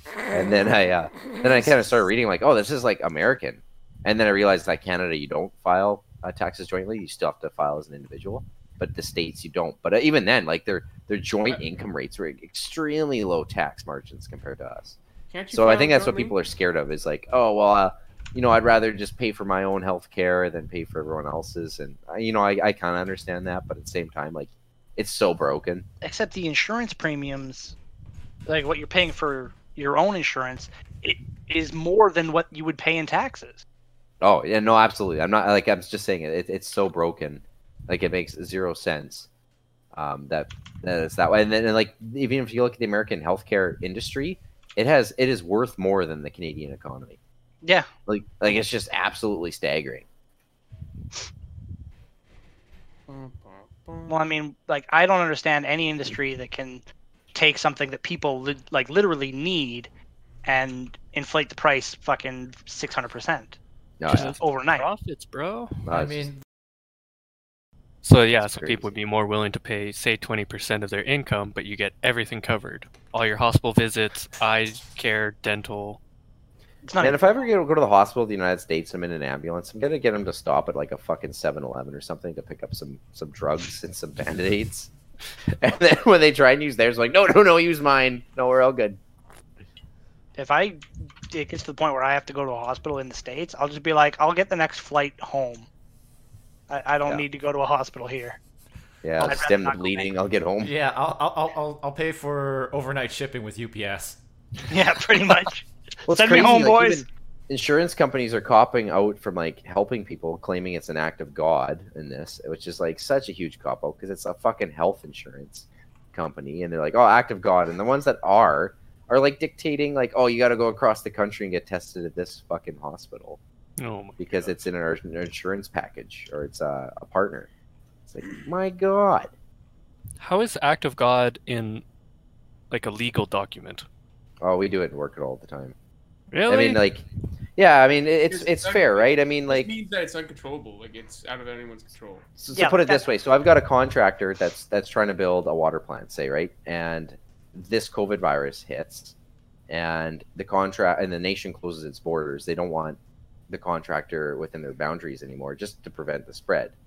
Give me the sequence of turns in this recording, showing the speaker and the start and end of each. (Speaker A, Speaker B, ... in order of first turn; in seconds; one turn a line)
Speaker A: 0.3-15.0
Speaker B: 15.3-16.3
Speaker A: 15.5-25.9
Speaker C: 26.0-27.8
Speaker C: 28.5-33.6
Speaker A: 34.2-39.3
Speaker A: 39.9-47.2
Speaker C: 47.6-47.9
Speaker A: 48.1-50.1
Speaker B: 53.1-54.2
Speaker C: 54.1-56.8
Speaker C: 57.3-59.9
Speaker C: 60.5-63.6
Speaker A: 64.0-64.4
Speaker D: 64.1-65.9
Speaker C: 64.1-64.9
Speaker A: 65.9-66.3
Speaker E: 65.9-66.4
Speaker D: 68.0-76.0
Speaker A: 68.4-68.9
Speaker C: 76.8-77.2
Speaker A: 77.0-84.9
Speaker A: 85.5-89.0
Speaker C: 90.4-95.7
Speaker C: 96.7-98.4
Speaker A: 99.0-100.7
Speaker C: 99.2-100.1
Speaker E: 100.6-104.2
Speaker C: 104.7-107.0
Speaker A: 106.0-123.4
Speaker D: 123.8-124.5
Speaker A: 124.2-127.5
Speaker A: 128.1-129.3
Speaker D: 130.2-131.8
Speaker D: 132.7-133.9
Speaker A: 134.4-135.8
Speaker D: 136.3-136.8
Speaker A: 136.5-137.0
Speaker A: 137.6-139.7
Speaker B: 138.3-142.2
Speaker A: 142.4-149.2
Speaker C: 142.5-143.1
Speaker A: 149.7-156.7